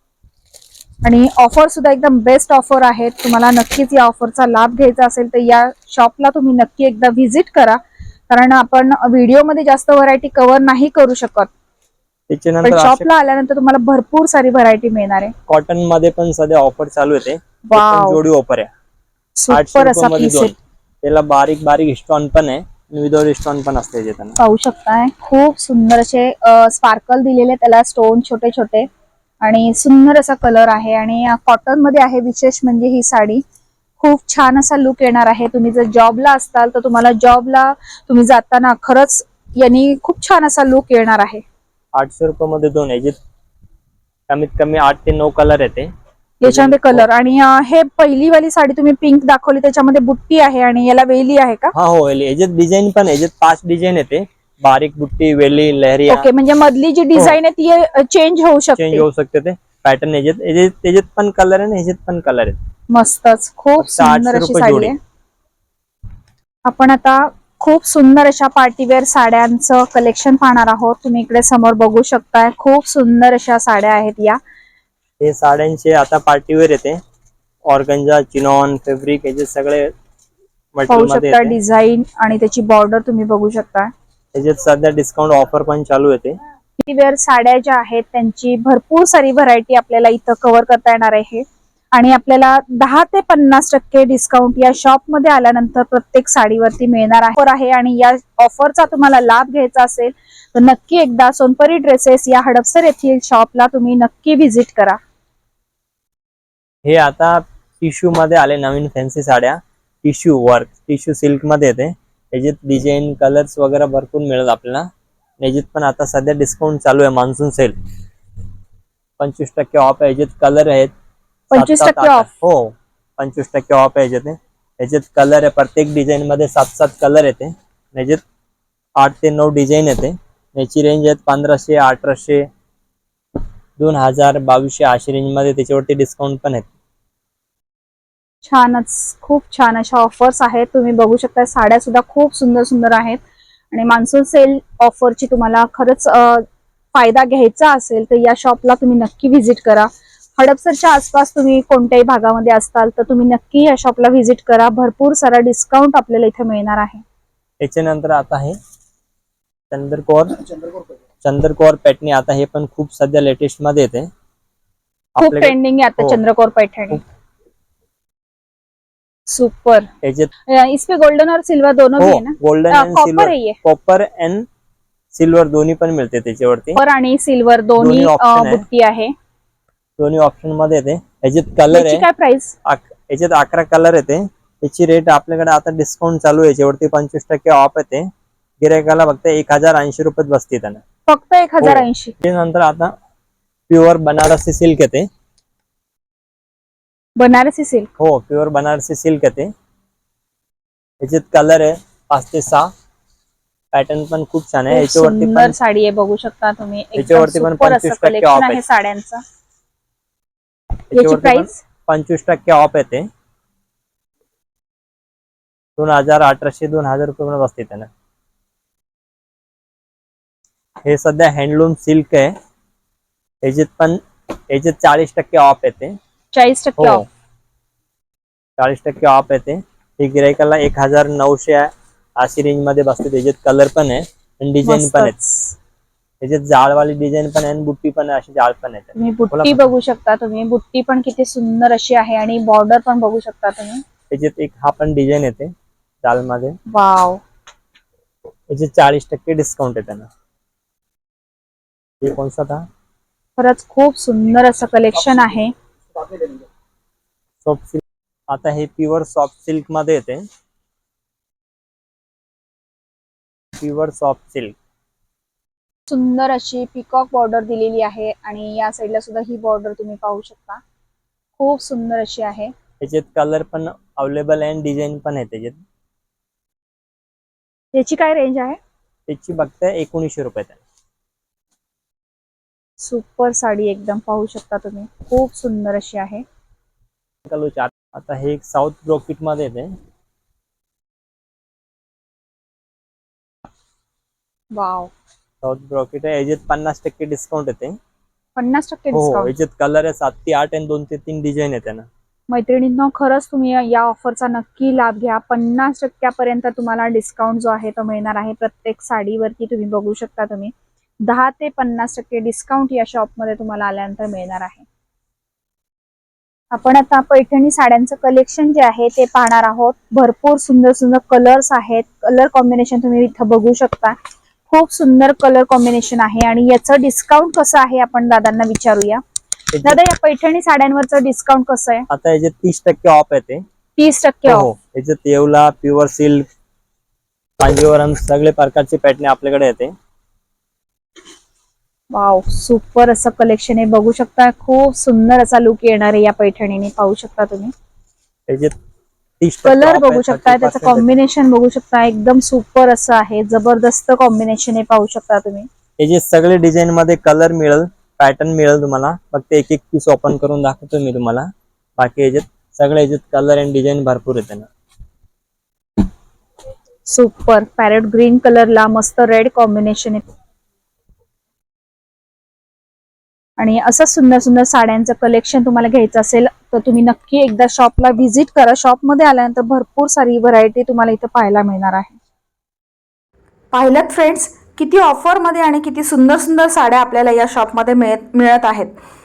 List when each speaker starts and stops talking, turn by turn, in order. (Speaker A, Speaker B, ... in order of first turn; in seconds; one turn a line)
Speaker A: 1.0-11.5
Speaker B: 12.3-13.1
Speaker A: 12.6-15.3
Speaker B: 15.5-18.7
Speaker A: 17.7-18.2
Speaker A: 19.4-20.5
Speaker B: 19.5-24.4
Speaker A: 24.4-28.9
Speaker A: 29.4-33.4
Speaker A: 34.0-41.4
Speaker B: 42.0-43.2
Speaker B: 44.3-45.9
Speaker A: 46.4-51.7
Speaker B: 46.4-47.1
Speaker B: 51.7-56.3
Speaker A: 56.1-59.1
Speaker B: 58.8-62.6
Speaker A: 62.9-65.0
Speaker B: 63.8-64.9
Speaker A: 66.7-74.4
Speaker B: 75.2-77.0
Speaker B: 77.7-79.9
Speaker B: 80.7-81.6
Speaker A: 80.9-83.9
Speaker B: 84.3-86.4
Speaker A: 86.8-105.0
Speaker B: 106.8-114.9
Speaker B: 115.4-117.8
Speaker B: 119.2-120.9
Speaker A: 121.5-122.3
Speaker B: 121.5-128.2
Speaker B: 129.0-132.5
Speaker B: 133.8-136.7
Speaker A: 138.4-143.2
Speaker A: 143.7-157.0
Speaker B: 157.6-158.6
Speaker B: 159.7-160.4
Speaker B: 161.2-164.1
Speaker B: 165.2-166.2
Speaker A: 165.2-167.0
Speaker A: 169.3-169.9
Speaker B: 170.0-170.3
Speaker A: 170.5-173.6
Speaker B: 172.0-174.5
Speaker B: 175.1-176.8
Speaker A: 176.8-179.1
Speaker B: 177.8-178.7
Speaker B: 180.0-182.1
Speaker A: 181.7-182.5
Speaker B: 182.7-188.1
Speaker B: 188.6-190.8
Speaker A: 191.1-192.1
Speaker B: 191.6-192.9
Speaker B: 193.7-195.1
Speaker A: 197.2-197.9
Speaker B: 198.0-199.5
Speaker B: 201.0-202.7
Speaker B: 203.7-205.6
Speaker A: 204.7-209.2
Speaker B: 207.0-208.6
Speaker A: 210.9-211.6
Speaker B: 210.9-213.1
Speaker B: 215.8-217.9
Speaker B: 220.8-222.3
Speaker B: 223.4-226.0
Speaker A: 226.3-227.1
Speaker B: 226.8-227.1
Speaker B: 228.6-235.2
Speaker A: 234.6-235.6
Speaker B: 236.2-239.7
Speaker A: 238.9-243.8
Speaker B: 244.1-245.5
Speaker B: 246.0-246.6
Speaker A: 246.7-247.2
Speaker B: 248.5-250.1
Speaker B: 252.0-252.7
Speaker A: 253.4-255.5
Speaker B: 257.4-260.3
Speaker B: 263.6-264.6
Speaker A: 265.9-270.6
Speaker A: 271.4-272.5
Speaker B: 272.8-275.6
Speaker A: 277.7-278.6
Speaker B: 279.1-280.6
Speaker A: 282.8-286.2
Speaker B: 287.3-289.7
Speaker A: 294.5-294.9
Speaker B: 295.4-297.8
Speaker A: 298.4-299.3
Speaker B: 298.9-301.9
Speaker A: 302.3-310.5
Speaker A: 311.1-314.7
Speaker A: 316.5-324.0
Speaker A: 324.5-329.0
Speaker B: 329.5-329.8
Speaker A: 329.6-331.9
Speaker B: 331.9-333.4
Speaker A: 333.8-334.5
Speaker B: 334.3-336.3
Speaker B: 337.4-339.7
Speaker A: 341.9-347.5
Speaker B: 348.3-348.5
Speaker B: 349.2-350.9
Speaker A: 349.4-355.5
Speaker B: 355.8-364.5
Speaker A: 366.9-370.1
Speaker A: 373.4-382.0
Speaker A: 383.5-388.8